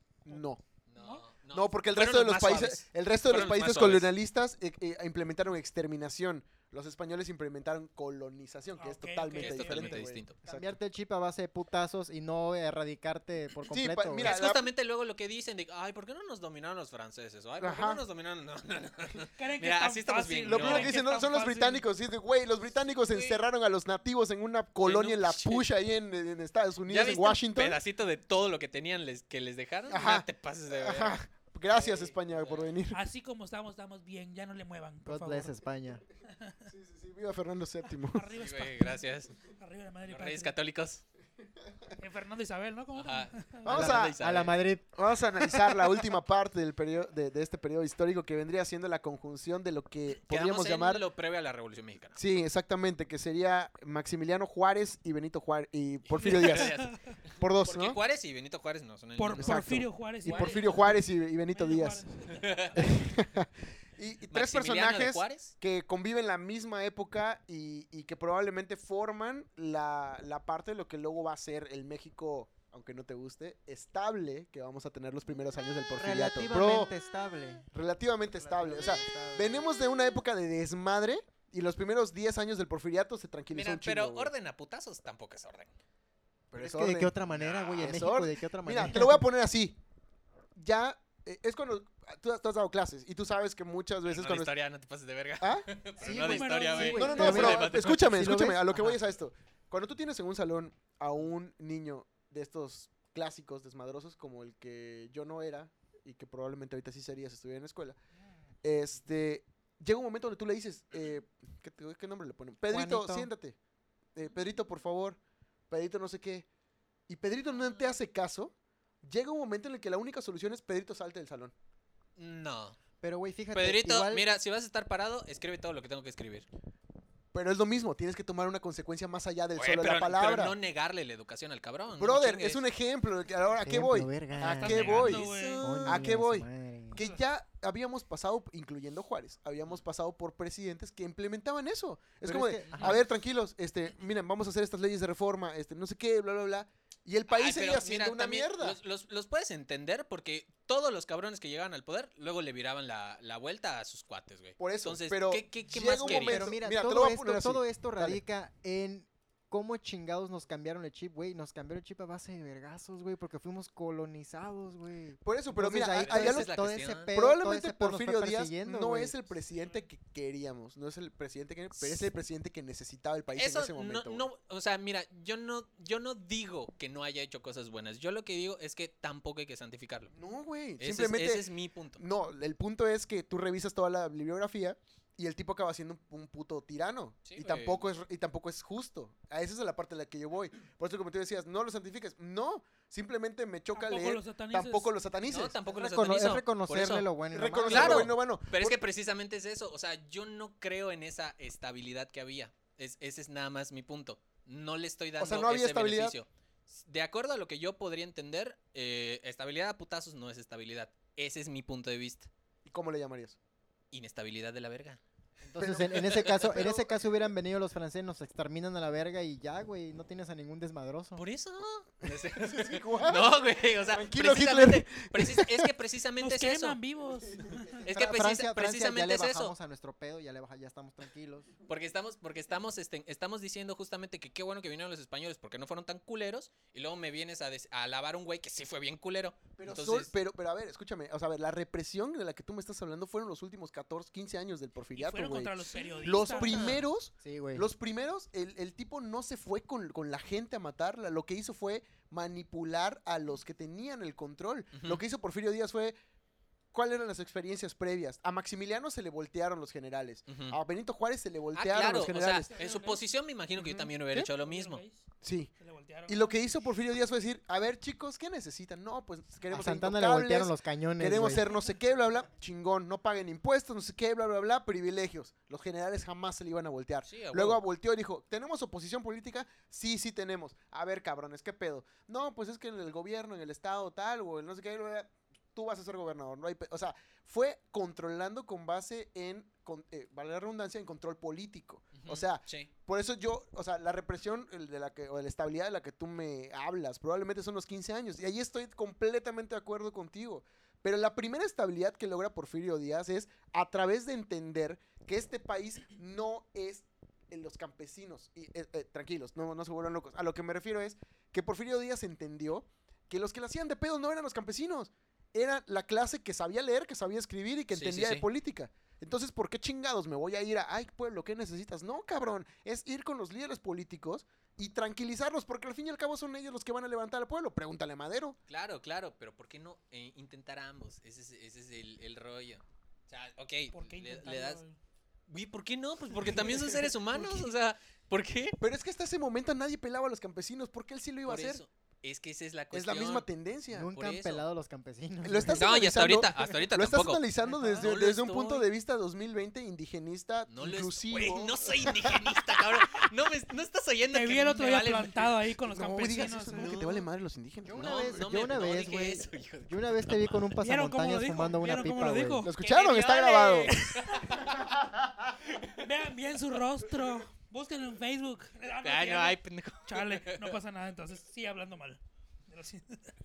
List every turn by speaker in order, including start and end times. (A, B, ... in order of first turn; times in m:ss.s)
0:00.2-0:00.6 A
0:00.9-0:04.1 B
0:01.0-0:01.3 C
0:01.5-0:10.8 A
0:08.8-0:10.0 C
0:09.3-0:10.4 B
0:10.4-0:14.4 D
0:13.7-0:14.7 A
0:14.2-0:21.0 B
0:17.6-0:18.0 A
0:19.4-0:21.8 C
0:20.5-0:27.8 A
0:23.1-0:23.4 B
0:24.8-0:25.7 B
0:26.9-0:32.7 B
0:29.9-0:33.0 A
0:32.9-0:35.6 C
0:35.0-0:36.0 D
0:36.6-0:38.3 A
0:38.1-0:40.6 C
0:38.3-0:39.3 B
0:40.0-0:41.0 B
0:42.0-0:43.9 C
0:42.9-0:44.6 B
0:43.6-0:44.2 A
0:43.7-0:44.9 D
0:44.9-0:51.0 A
0:45.4-0:45.9 B
0:50.1-0:52.2 B
0:52.2-0:56.7 A
0:56.1-0:59.7 B
0:56.2-0:57.0 C
0:57.4-0:58.0 A
0:59.2-1:01.0 C
0:59.4-1:02.0 A
1:00.2-1:00.9 B
1:01.5-1:03.0 C
1:02.3-1:02.9 B
1:02.8-1:16.9 A
1:04.3-1:05.5 B
1:16.0-1:17.7 D
1:17.7-1:24.3 A
1:18.3-1:19.7 D
1:23.5-1:25.7 B
1:26.5-1:27.2 A
1:26.6-1:29.2 D
1:27.3-1:28.0 B
1:27.8-1:29.8 A
1:30.6-1:34.5 A
1:34.1-1:38.4 B
1:35.4-1:48.0 A
1:36.0-1:37.6 C
1:36.1-1:39.0 D
1:48.6-1:53.6 A
1:52.7-1:53.3 D
1:54.2-1:55.2 A
1:55.7-1:56.5 A
1:57.1-2:01.5 A
2:02.2-2:02.8 B
2:03.0-2:04.3 D
2:03.5-2:06.5 B
2:07.3-2:10.6 A
2:09.6-2:12.6 B
2:12.0-2:15.3 A
2:13.6-2:17.0 D
2:14.6-2:15.8 C
2:14.6-2:16.0 B
2:15.8-2:28.8 A
2:22.2-2:23.0 D
2:27.3-2:36.5 B
2:34.6-2:38.2 A
2:36.0-2:49.2 D
2:45.2-2:54.3 A
2:46.0-2:47.1 B
2:51.8-2:52.1 B
2:53.3-3:00.1 B
3:00.1-3:01.5 A
3:00.8-3:02.0 B
3:02.0-3:15.6 A
3:07.2-3:07.8 B
3:13.7-3:14.9 C
3:15.3-3:17.0 B
3:15.7-3:18.2 D
3:17.3-3:18.8 A
3:17.7-3:32.3 B
3:25.2-3:26.2 A
3:32.7-3:33.4 A
3:33.9-3:35.0 B
3:35.4-3:41.2 D
3:35.6-3:37.0 A
3:41.2-3:46.8 B
3:42.0-3:45.7 A
3:46.2-3:47.9 C
3:47.8-3:49.5 B
3:47.9-3:51.5 D
3:51.7-4:00.1 B
3:59.6-4:16.0 A
4:04.9-4:06.8 C
4:05.8-4:06.8 B
4:07.2-4:07.7 D
4:14.7-4:15.0 B
4:16.7-4:22.6 A
4:20.3-4:20.6 B
4:21.5-4:24.8 B
4:22.5-4:23.0 C
4:23.6-4:24.3 A
4:24.4-4:25.0 C
4:25.2-4:25.5 A
4:25.6-4:26.6 C
4:26.1-5:28.4 A
4:29.5-4:31.5 D
4:37.1-4:37.6 B
4:52.0-4:52.7 B
5:17.7-5:18.2 B
5:28.5-5:34.6 B
5:33.7-5:34.8 C
5:35.3-5:38.6 B
5:36.3-5:37.5 A
5:38.6-5:41.6 A
5:41.3-5:43.3 B
5:42.7-5:43.9 A
5:43.7-5:45.7 D
5:43.9-5:44.4 B
5:45.2-5:52.4 A
5:45.6-5:48.7 B
5:47.4-5:47.9 C
5:50.5-5:55.4 B
5:54.1-5:56.7 C
5:55.7-5:58.2 A
5:56.5-5:57.1 B
5:57.6-6:02.5 D
5:57.8-6:00.5 B
6:00.6-6:04.5 C
6:02.4-6:03.8 A
6:02.7-6:04.8 B
6:05.4-6:05.9 B
6:05.8-6:13.1 C
6:08.8-6:10.6 B